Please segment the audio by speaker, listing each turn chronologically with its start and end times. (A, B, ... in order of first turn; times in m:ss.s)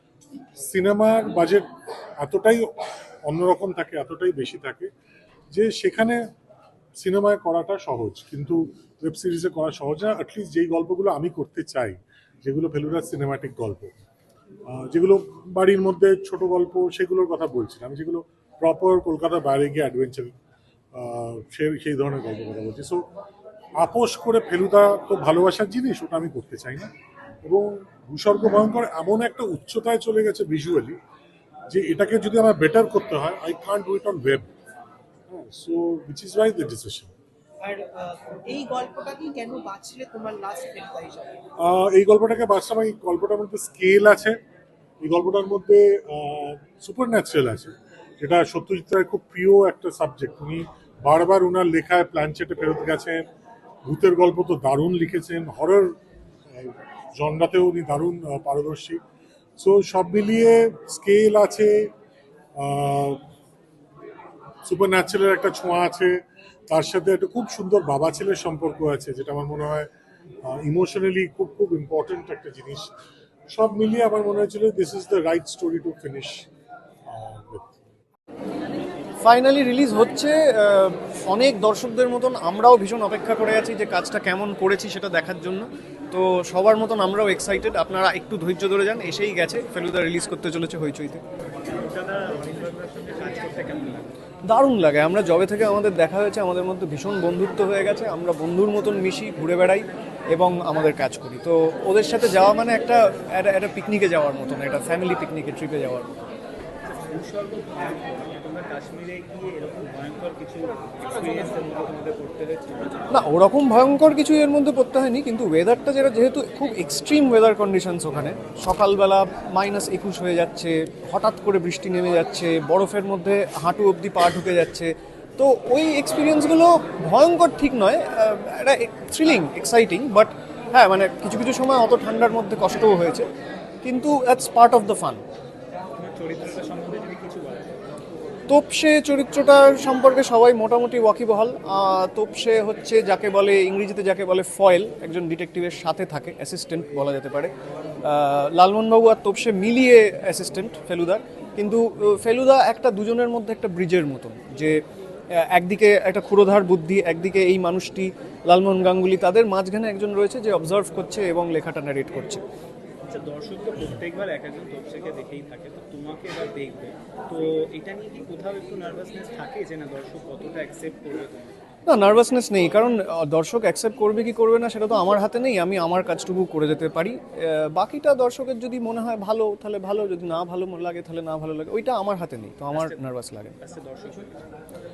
0:00.6-0:01.6 A
0:02.2-0:02.7 A
0:03.3-0:04.9 A
0:05.5-0:06.2 A
0:07.0-0:13.9 A
0:14.7-0:20.3 A
0:21.0-0:23.0 A
0:23.8-0:26.9 A
0:27.4-0:31.0 A
0:31.7-0:34.5 A
0:35.3-0:37.1 A
0:37.6-0:41.4 B
0:41.7-0:44.4 A
0:45.0-0:53.2 A
0:53.9-0:55.9 A
0:56.5-0:59.0 A
0:59.6-1:01.7 A
1:02.6-1:03.2 A
1:04.7-1:06.1 A
1:06.7-1:09.9 A
1:10.5-1:12.9 A
1:13.5-1:16.4 A
1:17.1-1:17.8 A
1:19.2-1:31.2 C
1:31.6-1:34.2 D
1:34.5-1:46.1 C
1:46.8-1:53.3 D
1:53.1-2:13.3 C
2:13.8-2:15.2 C
2:16.0-2:17.7 D
2:18.5-2:27.5 C
2:28.0-2:34.7 C
2:35.5-2:42.4 C
2:43.0-2:51.6 D
2:51.9-3:03.5 C
3:02.7-3:03.0 D
3:03.6-3:04.5 D